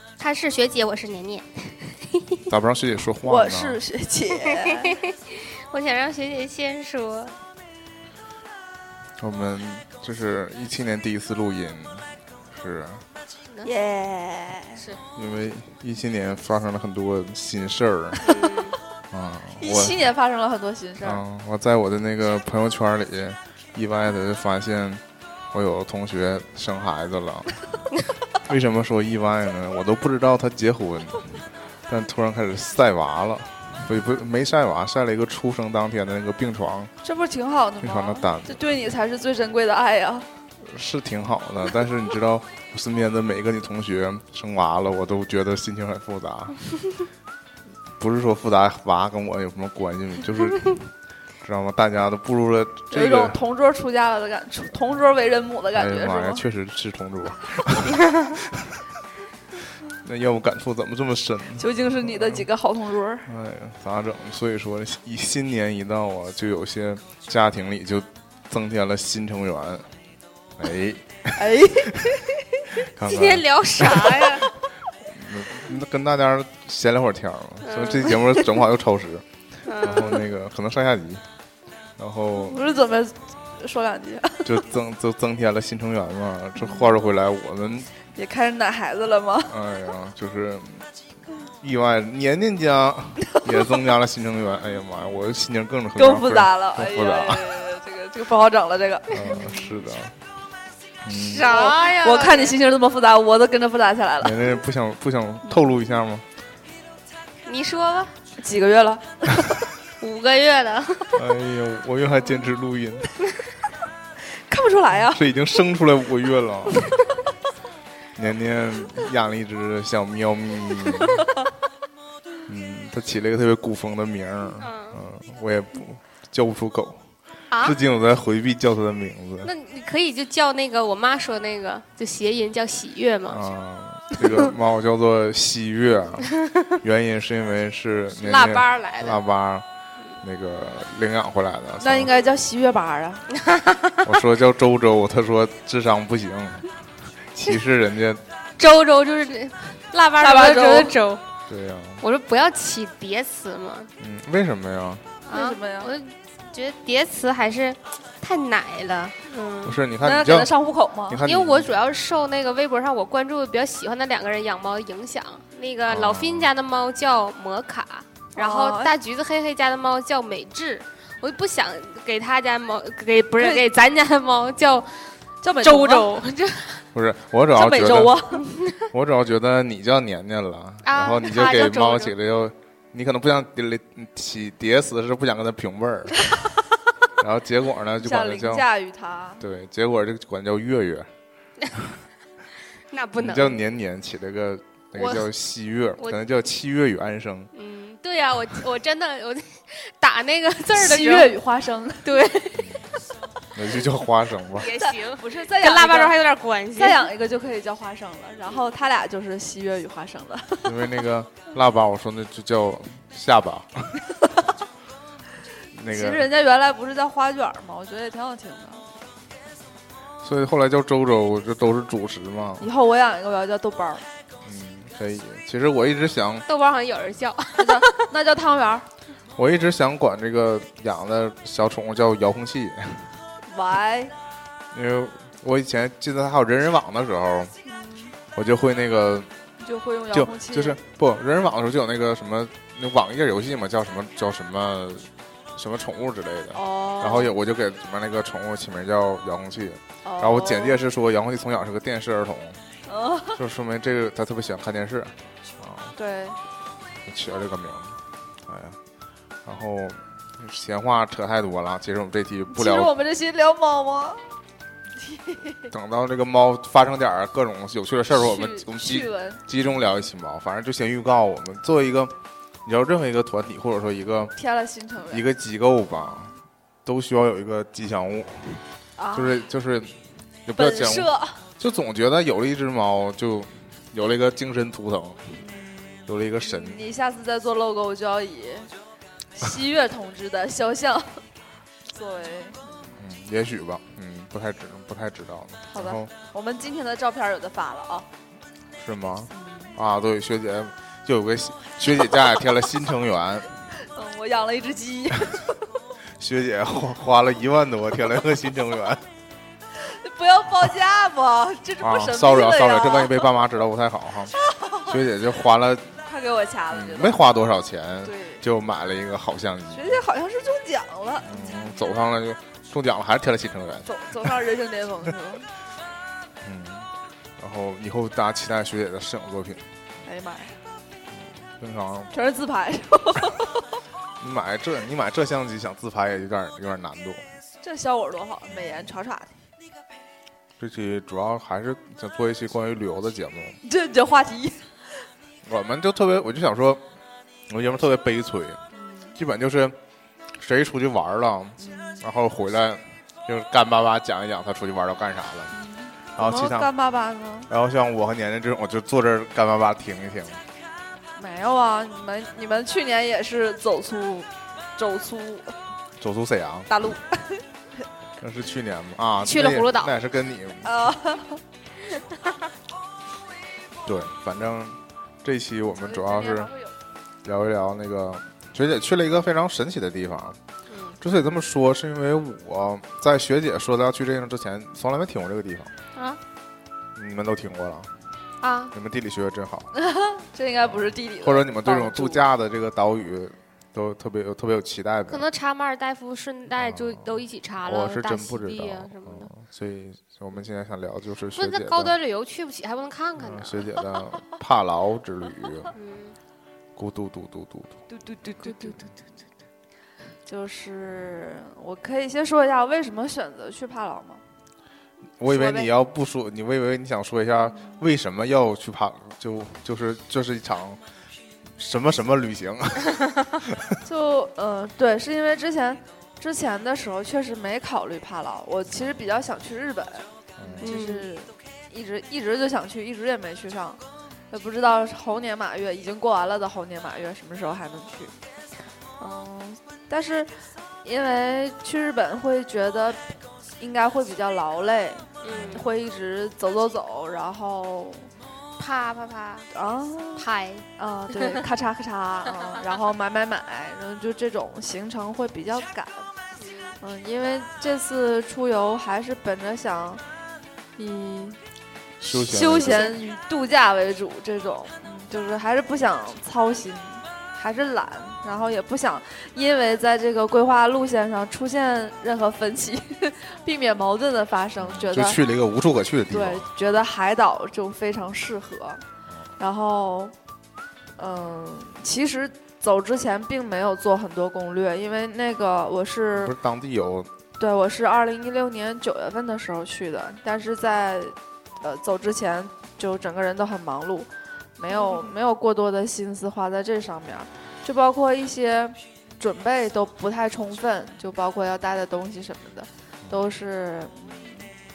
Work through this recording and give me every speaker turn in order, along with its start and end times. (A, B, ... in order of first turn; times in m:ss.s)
0:00.2-0:02.4 A
0:02.5-0:03.8 B
0:03.3-0:05.0 C
0:04.5-0:07.4 A
0:09.2-0:13.1 B
0:13.6-0:14.8 C
0:14.8-0:15.0 A
0:15.2-0:18.4 B
0:18.3-0:18.8 A
0:19.1-0:20.0 B
0:19.6-0:21.2 C
0:21.0-0:36.9 B
0:37.0-0:40.3 C
0:37.8-0:38.6 B
0:40.6-0:46.6 B
0:48.0-0:53.4 B
0:52.9-0:56.4 C
0:55.8-0:58.8 B
0:59.9-1:02.5 B
1:01.6-1:03.3 C
1:03.3-1:09.9 B
1:10.6-1:12.2 B
1:11.4-1:12.2 C
1:12.8-1:14.5 B
1:13.0-1:14.5 A
1:15.0-1:21.2 B
1:17.6-1:18.4 A
1:19.6-1:20.3 A
1:22.0-1:22.7 B
1:22.4-1:24.5 C
1:24.4-1:27.9 B
1:26.6-1:27.0 C
1:28.2-1:29.6 C
1:29.5-1:30.9 B
1:31.5-1:37.5 B
1:36.0-1:39.8 C
1:39.1-1:40.2 B
1:41.0-1:41.5 B
1:41.1-1:42.6 A
1:41.5-1:44.6 C
1:44.2-1:46.3 B
1:45.4-1:45.8 C
1:47.4-1:48.1 A
1:48.4-1:49.6 C
1:50.0-1:51.3 A
1:51.1-1:53.2 B
1:54.4-1:55.2 C
1:55.1-1:56.9 B
1:58.2-2:01.3 B
2:02.5-2:09.5 B
2:04.6-2:05.0 A
2:07.5-2:07.8 A
2:09.4-2:13.5 A
2:13.3-2:19.7 B
2:16.4-2:16.7 A
2:18.2-2:19.2 A
2:20.2-2:22.2 B
2:21.8-2:23.3 C
2:23.3-2:24.1 A
2:24.0-2:26.7 B
2:27.3-2:28.2 B
2:28.6-2:31.2 A
2:30.2-2:31.0 C
2:31.5-2:32.0 B
2:32.0-2:33.9 A
2:34.0-2:35.1 B
2:35.3-2:39.8 A
2:35.3-2:35.9 C
2:39.6-2:40.5 B
2:40.0-2:41.2 C
2:41.1-2:41.8 B
2:41.2-2:56.8 A
2:45.9-2:46.5 B
2:48.4-2:48.9 C
2:53.4-2:53.7 C
2:55.4-2:56.1 C
2:56.9-2:58.2 B
2:57.5-2:58.5 C
2:58.8-3:06.3 B
3:00.8-3:02.1 A
3:07.2-3:08.7 B
3:08.0-3:09.4 C
3:09.4-3:11.1 B
3:11.7-3:12.0 B
3:12.9-3:13.6 A
3:13.2-3:17.5 B
3:15.0-3:15.3 A
3:17.5-3:21.4 A
3:20.7-3:22.1 C
3:22.0-3:22.8 A
3:22.6-3:22.9 B
3:23.5-3:24.7 B
3:24.5-3:27.1 A
3:24.6-3:26.2 C
3:26.8-3:31.0 C
3:30.6-3:34.0 B
3:35.7-3:36.3 B
3:35.9-3:38.8 C
3:40.2-3:42.7 B
3:42.6-3:44.1 C
3:44.4-3:46.4 B
3:46.5-3:48.0 A
3:47.6-3:48.9 C
3:49.4-3:53.1 B
3:53.5-3:54.1 C
3:54.7-3:57.5 B
3:57.7-3:58.1 C
3:58.3-3:59.3 B
3:59.6-4:00.8 C
4:00.1-4:12.6 B
4:06.5-4:07.3 C
4:10.0-4:10.8 C
4:12.9-4:13.4 C
4:13.4-4:16.0 B
4:16.0-4:16.4 C
4:17.1-4:18.8 B
4:19.4-4:22.9 B
4:22.5-4:24.2 C
4:25.0-4:25.7 C
4:25.7-4:32.1 B
4:28.1-4:29.4 C
4:32.7-4:34.3 B
4:34.4-4:35.2 C
4:35.1-4:45.2 B
4:39.0-4:39.5 C
4:40.6-4:41.4 C
4:45.4-4:48.7 C
4:46.1-4:46.9 B
4:49.4-4:51.2 C
4:51.9-4:52.9 C
4:53.0-4:56.1 B
4:55.7-4:58.1 C
4:58.8-5:03.5 B
4:59.3-4:59.8 C
5:03.8-5:05.6 C
5:06.2-5:09.0 B
5:09.7-5:13.2 C
5:11.8-5:14.3 B
5:14.3-5:14.9 C
5:14.8-5:15.9 B
5:16.0-5:17.2 C
5:16.7-5:20.0 B
5:18.0-5:18.4 C
5:19.7-5:22.0 C
5:21.2-5:24.3 B
5:23.8-5:25.5 C
5:26.4-5:29.6 B
5:30.0-5:30.6 C
5:31.1-5:32.1 B
5:32.1-5:33.6 C
5:34.2-5:37.3 B
5:37.6-5:39.3 C
5:38.5-5:38.9 B
5:40.6-5:43.6 B
5:43.6-5:44.6 C
5:45.4-5:46.8 B
5:47.5-5:48.6 B
5:48.7-5:49.2 C
5:49.2-5:49.8 B
5:50.4-5:55.5 B
5:51.6-5:52.0 C
5:55.5-5:57.5 C
5:56.2-5:56.7 B
5:57.5-6:00.4 B
6:01.2-6:05.6 C
6:06.0-6:06.7 B
6:06.7-6:07.4 C
6:08.2-6:10.8 B
6:09.2-6:09.9 A
6:10.6-6:11.4 C
6:13.8-6:16.5 B
6:15.8-6:16.7 C
6:17.2-6:20.4 B
6:20.7-6:21.0 A
6:21.0-6:25.7 B
6:26.0-6:26.2 A
6:27.0-6:27.9 B
6:28.4-6:28.7 A
6:28.7-6:29.7 B
6:29.7-6:32.2 C
6:30.6-6:35.2 B
6:35.1-6:39.3 A
6:36.5-6:42.0 B
6:41.4-6:43.8 A
6:43.2-6:45.7 B
6:45.7-6:46.2 A
6:46.8-6:47.8 B
6:47.9-6:48.8 C
6:48.4-6:48.9 A
6:50.3-6:54.2 C
6:55.2-7:00.8 B
6:55.2-6:55.7 A
6:57.4-6:57.8 C
7:01.6-7:03.8 B
7:03.8-7:10.1 C
7:08.7-7:09.0 B
7:10.4-7:10.7 B
7:10.6-7:13.8 C
7:10.6-7:11.1 A
7:14.3-7:18.1 C
7:19.0-7:20.3 C
7:20.8-7:28.1 C
7:25.2-7:25.7 A
7:25.3-7:25.7 B
7:28.6-7:29.5 A
7:29.5-7:36.1 C
7:30.2-7:31.2 A
7:36.4-7:36.8 A
7:36.8-7:40.0 C
7:40.8-7:41.4 C
7:42.0-7:43.0 B
7:42.1-7:55.2 C
7:42.6-7:42.9 A
7:54.6-7:56.5 B
7:56.1-7:58.8 C
7:59.4-8:00.1 C
8:01.0-8:06.3 C
8:06.1-8:07.1 B
8:07.4-8:24.5 C
8:14.7-8:15.2 A